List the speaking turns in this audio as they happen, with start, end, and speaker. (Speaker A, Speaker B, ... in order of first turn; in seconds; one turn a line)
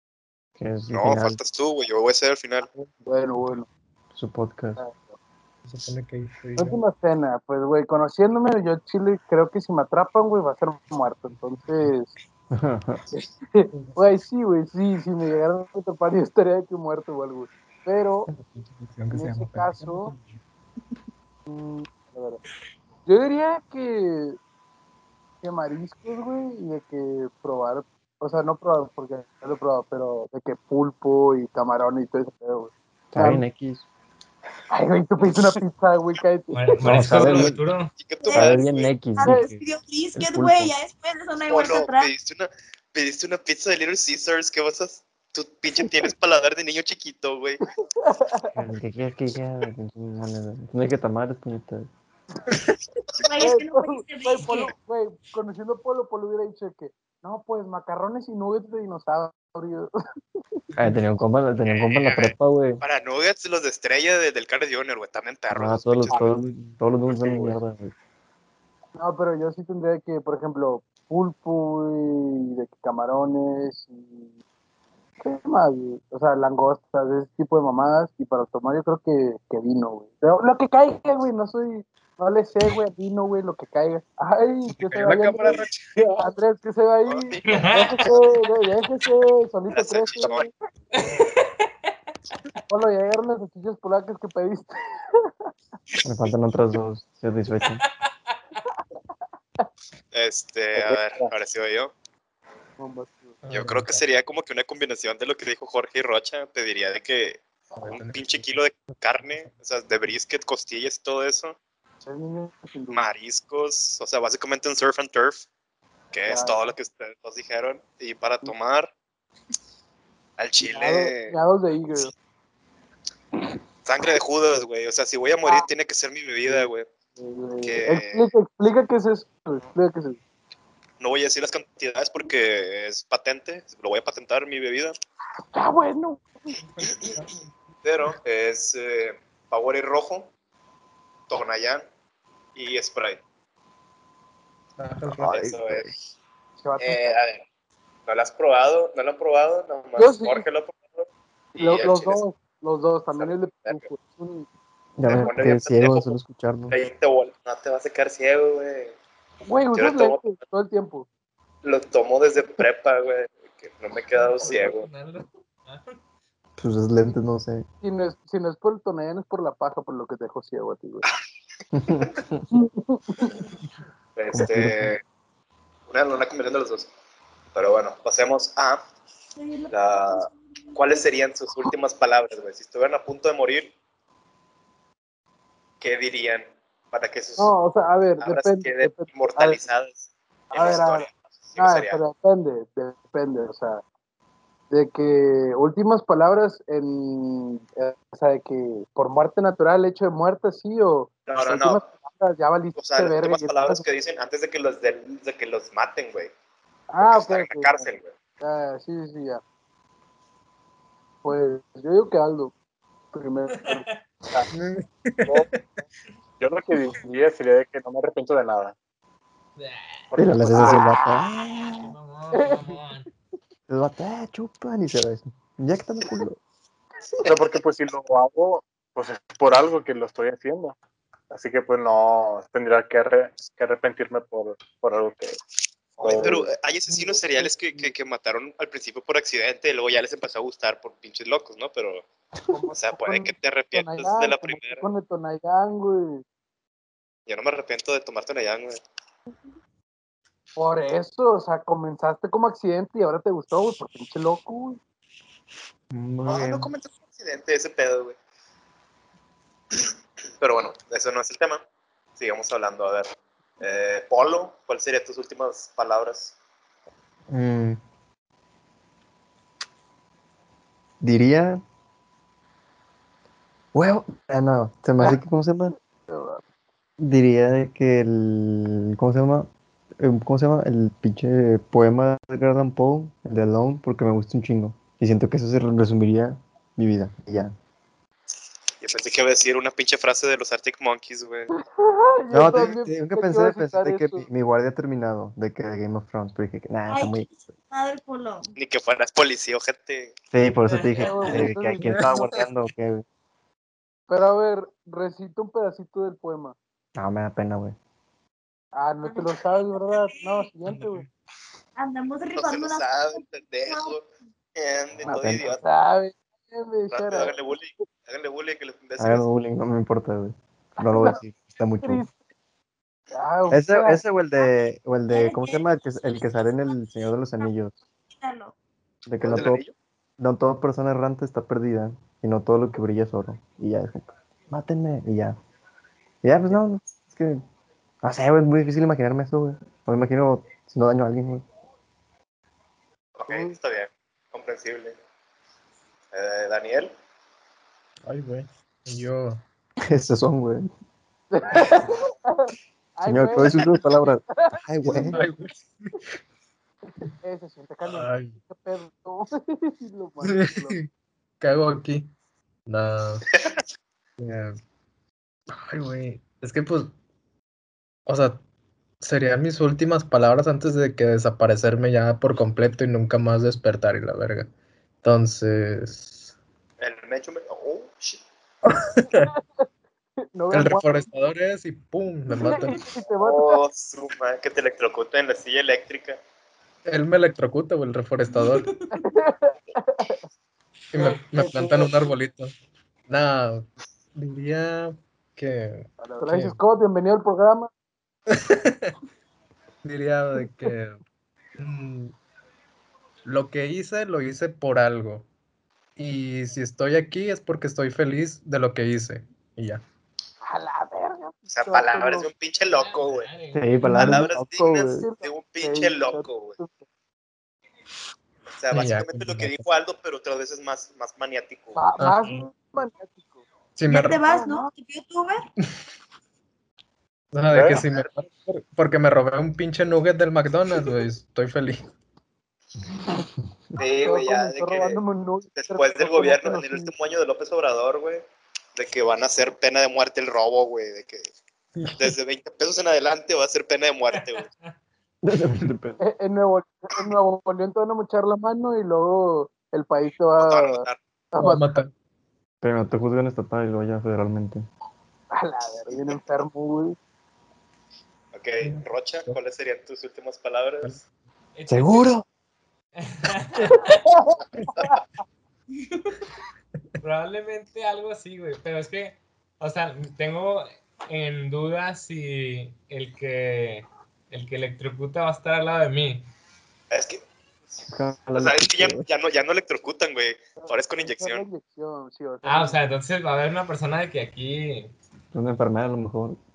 Speaker A: 0.6-1.4
Speaker B: 0.9-2.7
Speaker C: 3.1-3.7
Speaker A: 4.1-4.8
Speaker C: 4.8-5.1
Speaker D: 5.7-6.8
Speaker C: 6.6-12.1
Speaker A: 12.5-13.0
Speaker C: 13.1-18.3
Speaker D: 13.7-14.0
Speaker D: 18.3-20.4
Speaker C: 19.1-20.1
Speaker C: 21.5-22.4
Speaker C: 23.1-24.4
Speaker C: 25.4-33.4
Speaker A: 33.1-33.9
Speaker C: 34.7-37.1
Speaker E: 36.5-37.9
Speaker A: 36.8-37.6
Speaker B: 38.0-38.9
Speaker F: 38.2-38.6
Speaker A: 38.3-39.6
Speaker F: 39.1-42.1
Speaker C: 39.2-39.5
Speaker A: 40.1-40.8
Speaker B: 41.5-47.6
Speaker C: 48.0-48.5
Speaker A: 48.5-51.9
Speaker F: 53.2-54.7
Speaker C: 53.4-59.9
Speaker A: 60.8-62.8
Speaker B: 61.6-66.3
Speaker A: 65.5-67.9
Speaker C: 69.0-74.3
Speaker C: 75.2-85.6
Speaker D: 84.7-86.2
Speaker C: 86.2-90.5
Speaker B: 87.0-88.2
Speaker E: 87.5-88.1
Speaker B: 89.7-90.5
Speaker E: 91.0-91.7
Speaker C: 92.7-95.3
Speaker A: 96.0-97.8
Speaker B: 100.1-101.9
Speaker C: 102.8-103.4
Speaker D: 103.4-104.0
Speaker B: 103.5-111.6
Speaker D: 107.7-109.5
Speaker C: 112.0-113.0
Speaker B: 112.9-115.5
Speaker B: 116.1-118.9
Speaker C: 116.3-116.6
Speaker B: 120.4-121.4
Speaker C: 120.6-122.1
Speaker B: 123.8-126.9
Speaker C: 126.5-130.2
Speaker B: 127.6-128.3
Speaker B: 131.0-134.9
Speaker C: 135.5-136.6
Speaker D: 136.8-137.4
Speaker B: 137.8-140.3
Speaker B: 141.3-141.8
Speaker B: 142.6-143.2
Speaker D: 144.8-145.4
Speaker B: 145.1-145.9
Speaker A: 145.2-145.9
Speaker C: 146.6-147.2
Speaker B: 146.8-147.4
Speaker B: 148.1-152.2
Speaker C: 150.0-150.4
Speaker C: 151.6-154.5
Speaker B: 153.1-153.9
Speaker A: 155.0-156.8
Speaker B: 155.1-156.1
Speaker B: 156.7-158.9
Speaker C: 159.4-161.1
Speaker B: 159.7-160.3
Speaker B: 161.6-164.9
Speaker E: 164.2-166.0
Speaker A: 166.6-167.7
Speaker C: 167.8-171.1
Speaker A: 171.7-172.4
Speaker C: 172.5-173.4
Speaker B: 174.2-175.0
Speaker A: 174.3-174.9
Speaker B: 175.9-176.9
Speaker B: 177.5-178.8
Speaker F: 179.4-180.9
Speaker B: 179.7-183.7
Speaker B: 185.8-187.6
Speaker C: 187.4-189.6
Speaker B: 188.2-192.0
Speaker C: 190.5-193.8
Speaker C: 194.7-203.8
Speaker B: 201.3-201.9
Speaker B: 202.8-206.3
Speaker C: 206.9-207.8
Speaker B: 207.0-208.1
Speaker C: 208.4-209.4
Speaker C: 211.2-212.5
Speaker C: 213.1-213.9
Speaker E: 213.6-213.9
Speaker D: 214.5-215.7
Speaker G: 216.4-218.8
Speaker E: 219.6-220.1
Speaker G: 220.1-220.9
Speaker A: 220.2-221.9
Speaker C: 220.6-221.3
Speaker E: 221.8-223.1
Speaker C: 222.3-222.8
Speaker A: 223.7-226.4
Speaker G: 227.2-230.8
Speaker G: 231.3-235.4
Speaker G: 236.0-236.4
Speaker B: 236.0-242.1
Speaker C: 236.1-237.9
Speaker C: 242.5-246.2
Speaker B: 242.7-244.9
Speaker B: 247.3-248.8
Speaker C: 250.6-254.8
Speaker A: 255.9-256.7
Speaker B: 256.2-258.2
Speaker B: 260.4-261.6
Speaker B: 262.1-266.4
Speaker A: 267.3-267.8
Speaker A: 271.0-271.6
Speaker A: 273.7-275.8
Speaker C: 276.1-276.4
Speaker A: 277.0-279.5
Speaker A: 280.0-287.5
Speaker B: 288.8-291.5
Speaker C: 291.6-294.2
Speaker A: 292.3-297.3
Speaker F: 296.9-298.5
Speaker B: 298.6-300.1
Speaker A: 300.3-303.0
Speaker C: 301.0-302.3
Speaker D: 301.8-302.2
Speaker C: 304.1-306.5
Speaker A: 307.0-307.8
Speaker C: 308.8-311.0
Speaker F: 309.0-310.5
Speaker D: 310.7-311.1
Speaker F: 311.8-314.0
Speaker B: 312.4-314.1
Speaker B: 314.6-315.6
Speaker C: 315.0-317.3
Speaker A: 315.1-315.6
Speaker B: 316.9-319.2
Speaker A: 319.0-322.0
Speaker C: 320.8-321.2
Speaker C: 321.8-322.1
Speaker C: 323.1-324.0
Speaker A: 323.5-327.8
Speaker F: 325.1-325.6
Speaker F: 326.4-326.8
Speaker F: 328.1-328.5
Speaker A: 329.1-329.6
Speaker B: 329.2-329.7
Speaker A: 330.2-335.4
Speaker A: 336.2-337.4
Speaker A: 338.0-341.4
Speaker B: 343.2-345.0
Speaker C: 343.3-343.6
Speaker B: 346.1-346.9
Speaker D: 348.1-349.4
Speaker A: 349.8-350.7
Speaker C: 351.3-355.2
Speaker A: 353.1-355.2
Speaker D: 355.0-355.7
Speaker C: 357.0-360.8
Speaker D: 357.8-358.4
Speaker D: 360.2-360.9
Speaker D: 361.4-362.1
Speaker D: 362.7-363.2
Speaker B: 363.3-363.6
Speaker D: 364.2-364.6
Speaker D: 365.5-366.9
Speaker D: 368.1-368.4
Speaker D: 369.0-374.5
Speaker D: 375.0-376.3
Speaker B: 376.8-378.2
Speaker D: 378.6-379.3
Speaker C: 379.1-379.6
Speaker C: 380.3-381.1
Speaker D: 380.5-382.8
Speaker C: 382.3-383.6
Speaker B: 383.2-386.2
Speaker D: 386.9-388.7
Speaker F: 388.3-388.9
Speaker C: 388.9-390.2
Speaker D: 390.9-392.5
Speaker C: 391.0-392.1
Speaker D: 393.1-396.6
Speaker C: 396.0-397.7
Speaker D: 398.3-398.9
Speaker D: 399.8-401.0
Speaker D: 401.6-402.1
Speaker D: 403.2-405.2
Speaker D: 406.0-409.8
Speaker C: 410.4-412.3
Speaker B: 411.5-413.3
Speaker E: 412.7-413.7
Speaker A: 413.5-415.1
Speaker B: 414.0-416.6
Speaker C: 414.9-416.8
Speaker B: 418.6-421.8
Speaker D: 418.7-419.7
Speaker C: 421.8-423.4
Speaker D: 422.0-422.4
Speaker D: 423.8-424.2
Speaker F: 423.9-425.5
Speaker C: 424.2-424.7
Speaker D: 427.3-431.8
Speaker G: 427.5-427.9
Speaker B: 433.8-435.0
Speaker C: 433.8-436.9
Speaker B: 435.6-438.2
Speaker B: 438.8-441.3
Speaker D: 441.8-442.1
Speaker B: 442.0-444.5
Speaker E: 444.1-444.7
Speaker A: 445.2-446.0
Speaker C: 446.0-451.8
Speaker B: 450.4-451.0
Speaker D: 451.4-451.9
Speaker A: 452.6-454.6
Speaker C: 455.3-457.0
Speaker B: 458.3-461.0
Speaker D: 458.7-459.4
Speaker E: 461.6-462.1
Speaker A: 461.7-462.2
Speaker E: 463.0-464.0
Speaker C: 464.2-465.0
Speaker D: 464.6-464.9
Speaker E: 467.0-476.3
Speaker B: 476.9-477.2
Speaker A: 477.9-479.1
Speaker B: 478.3-481.4
Speaker C: 480.6-482.8
Speaker E: 482.4-484.9
Speaker A: 485.3-486.4